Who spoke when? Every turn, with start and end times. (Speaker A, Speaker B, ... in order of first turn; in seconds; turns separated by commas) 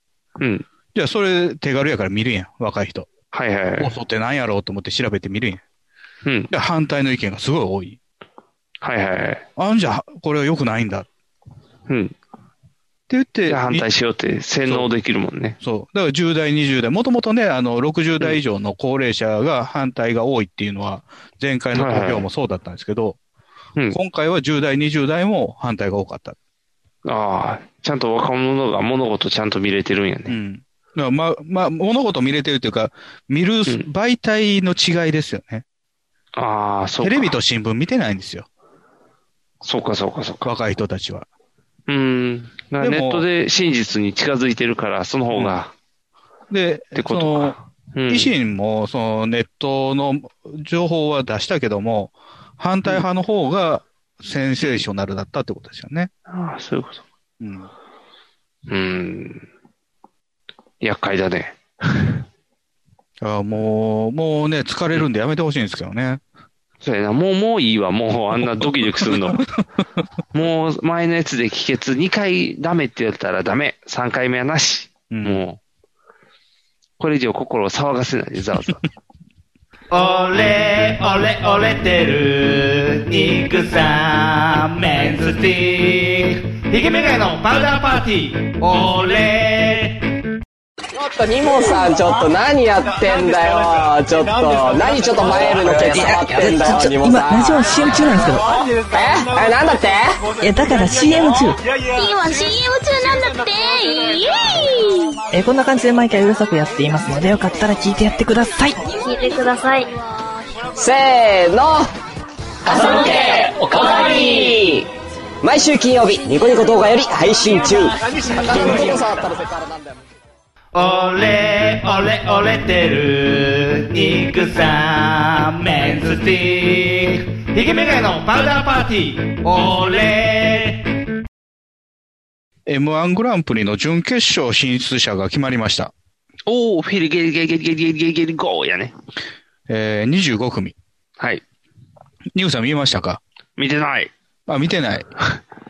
Speaker A: 0.4-0.7, Speaker B: 0.9-3.1, Speaker A: 3.3-4.0, Speaker B: 3.8-5.6, Speaker A: 6.2-6.5, Speaker B: 6.5-8.0, Speaker A: 8.8-9.5, Speaker B: 9.6-11.1, Speaker A: 11.9-12.2, Speaker B: 13.1-13.9, Speaker A: 13.5-15.6, Speaker B: 15.6-23.2, Speaker A: 21.8-22.3, Speaker B: 23.9-26.4, Speaker A: 27.1-30.4, Speaker B: 30.3-35.6, Speaker A: 36.4-37.3, Speaker B: 37.0-38.5, Speaker A: 39.6-40.5, Speaker B: 40.4-41.3, Speaker A: 41.9-45.7, Speaker B: 42.8-43.3, Speaker B: 46.5-47.6, Speaker A: 47.0-48.3, Speaker B: 48.1-56.1, Speaker A: 56.3-57.0, Speaker B: 57.4-57.7, Speaker A: 58.7-59.5, Speaker A: 60.8-62.2, Speaker B: 63.2-66.2, Speaker A: 66.8-69.4, Speaker B: 68.6-69.4, Speaker A: 70.3-75.6, Speaker B: 75.1-75.4, Speaker A: 77.0-78.8, Speaker C: 79.9-90.0, Speaker D: 91.0-97.6, Speaker E: 95.7-98.4, Speaker D: 98.9-100.2, Speaker E: 100.4-101.6, Speaker F: 102.0-105.0, Speaker E: 105.3-108.8, Speaker F: 109.0-109.9, Speaker D: 110.8-111.9, Speaker D: 112.7-114.9, Speaker D: 115.4-119.7, Speaker C: 120.8-130.8, Speaker B: 132.7-135.9, Speaker A: 136.5-138.9, Speaker B: 139.7-140.8, Speaker B: 142.3-143.2, Speaker A: 143.6-144.1, Speaker B: 144.5-145.1